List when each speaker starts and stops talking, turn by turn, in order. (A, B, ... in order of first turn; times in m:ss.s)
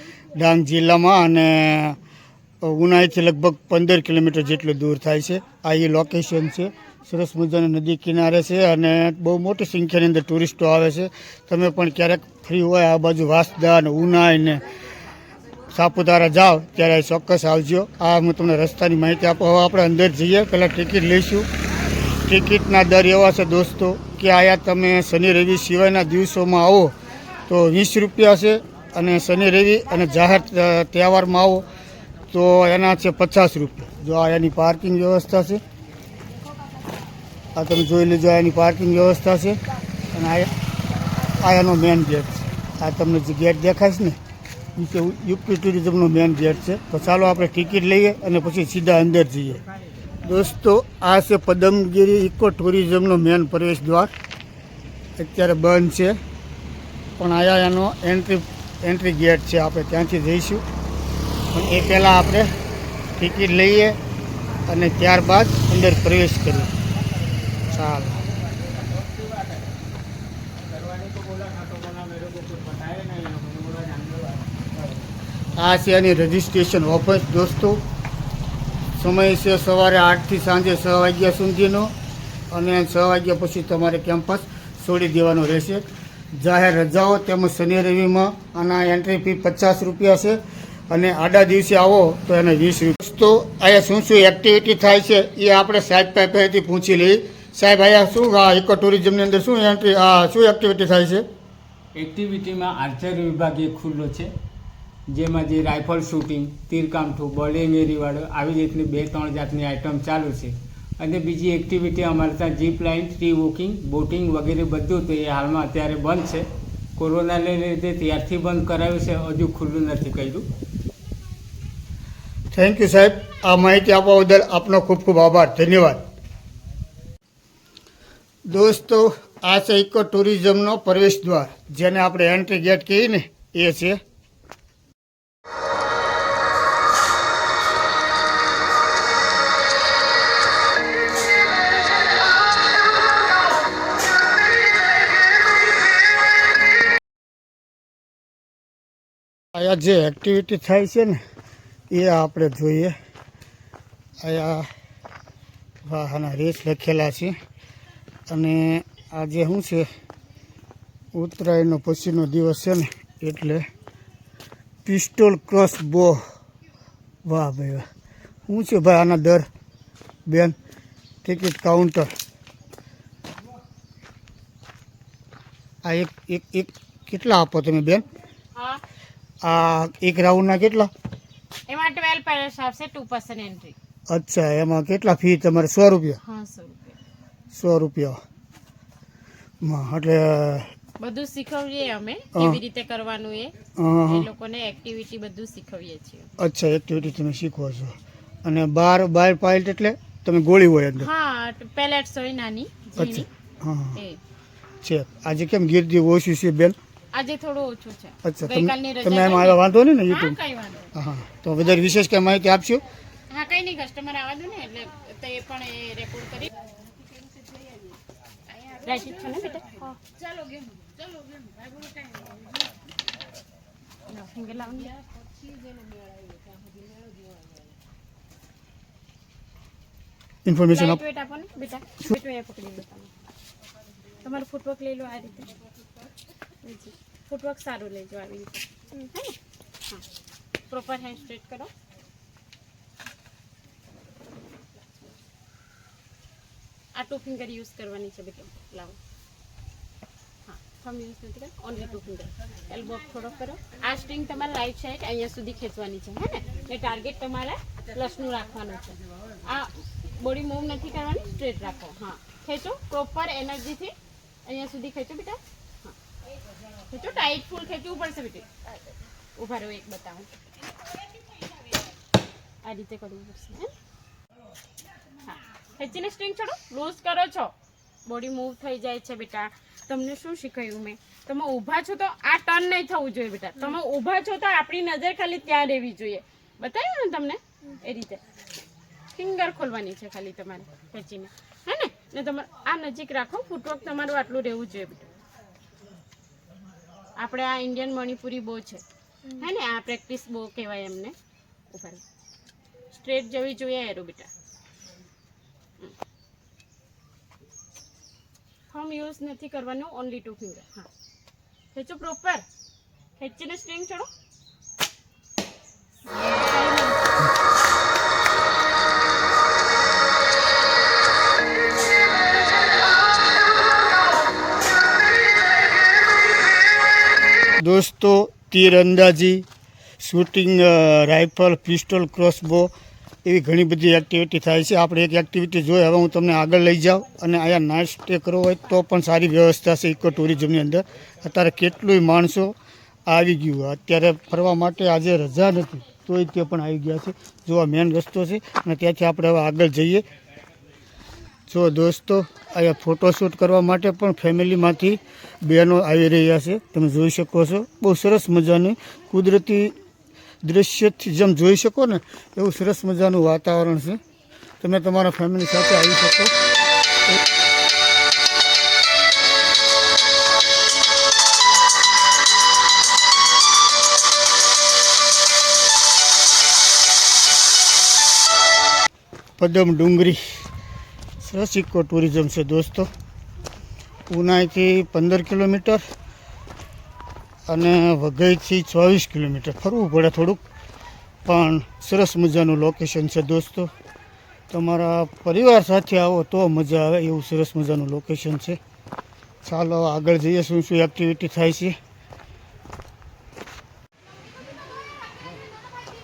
0:00.4-0:02.0 A
0:02.6-0:14.6 A
0:15.7-0:21.5 A
0:22.2-0:27.0 A
0:27.5-0:31.7 A
0:32.3-0:35.6 A
0:37.6-0:39.6 A
0:40.1-0:40.5 A
0:41.4-0:44.2 A
0:44.8-0:49.6 A
0:50.2-0:54.1 A
0:55.2-0:56.2 A
0:57.2-1:00.6 A
1:01.5-1:02.5 A
1:03.2-1:04.0 A
1:04.7-1:06.7 A
1:07.7-1:08.2 A
1:08.8-1:09.4 B
1:10.7-1:14.4 B
1:15.6-1:17.8 A
1:19.0-1:21.9 A
1:22.5-1:41.2 A
1:42.0-1:44.3 B
1:45.1-2:00.5 B
2:02.5-2:06.0 A
2:08.5-2:14.0 A
2:29.5-2:31.2 A
2:31.9-2:33.0 A
2:34.2-2:34.7 A
2:35.8-2:37.4 A
2:38.3-2:39.9 A
2:41.1-2:43.7 A
2:44.8-2:46.2 A
2:47.2-2:47.9 A
2:48.5-2:49.5 A
2:50.3-2:50.6 A
2:51.2-2:52.1 A
2:55.8-2:58.0 A
2:58.6-2:58.8 C
2:59.4-3:00.9 A
3:01.7-3:03.8 C
3:04.1-3:06.2 A
3:06.2-3:07.0 C
3:07.5-3:08.2 A
3:09.6-3:10.7 A
3:11.0-3:13.5 C
3:12.4-3:12.6 A
3:13.8-3:14.3 A
3:14.1-3:16.3 C
3:16.4-3:21.1 A
3:21.0-3:23.3 C
3:23.0-3:24.0 A
3:24.8-3:26.8 A
3:27.1-3:30.9 C
3:28.2-3:30.4 A
3:30.9-3:32.8 A
3:33.3-3:36.5 C
3:38.6-3:40.0 C
3:44.1-3:44.9 C
3:50.4-3:51.0 A
3:50.7-3:53.1 C
3:54.2-3:55.5 C
3:56.6-3:59.4 C
4:00.7-4:01.7 C
4:07.0-4:09.0 C
4:10.5-4:23.9 C
4:24.5-4:25.9 C
4:26.9-4:28.5 C
4:29.4-4:30.3 C
4:32.6-4:33.7 C
4:35.2-4:37.5 C
4:38.1-4:48.2 C
4:49.1-4:55.1 C
4:57.2-4:58.8 C
4:59.4-5:01.2 C
5:01.7-5:02.0 C
5:02.9-5:04.3 C
5:08.7-5:10.9 C
5:11.7-5:12.4 C
5:13.2-5:14.1 C
5:16.1-5:17.0 C
5:27.6-5:29.4 A
5:30.0-5:32.7 A
5:33.2-5:42.6 A
5:43.1-5:50.0 A
5:51.5-5:59.8 A
6:00.4-6:04.0 A
6:04.6-6:06.3 A
6:19.4-6:20.5 A
6:21.2-6:22.9 A
6:24.1-6:25.8 A
6:27.5-6:30.4 A
6:31.2-6:33.7 A
6:34.5-6:38.6 A
6:39.4-6:41.8 A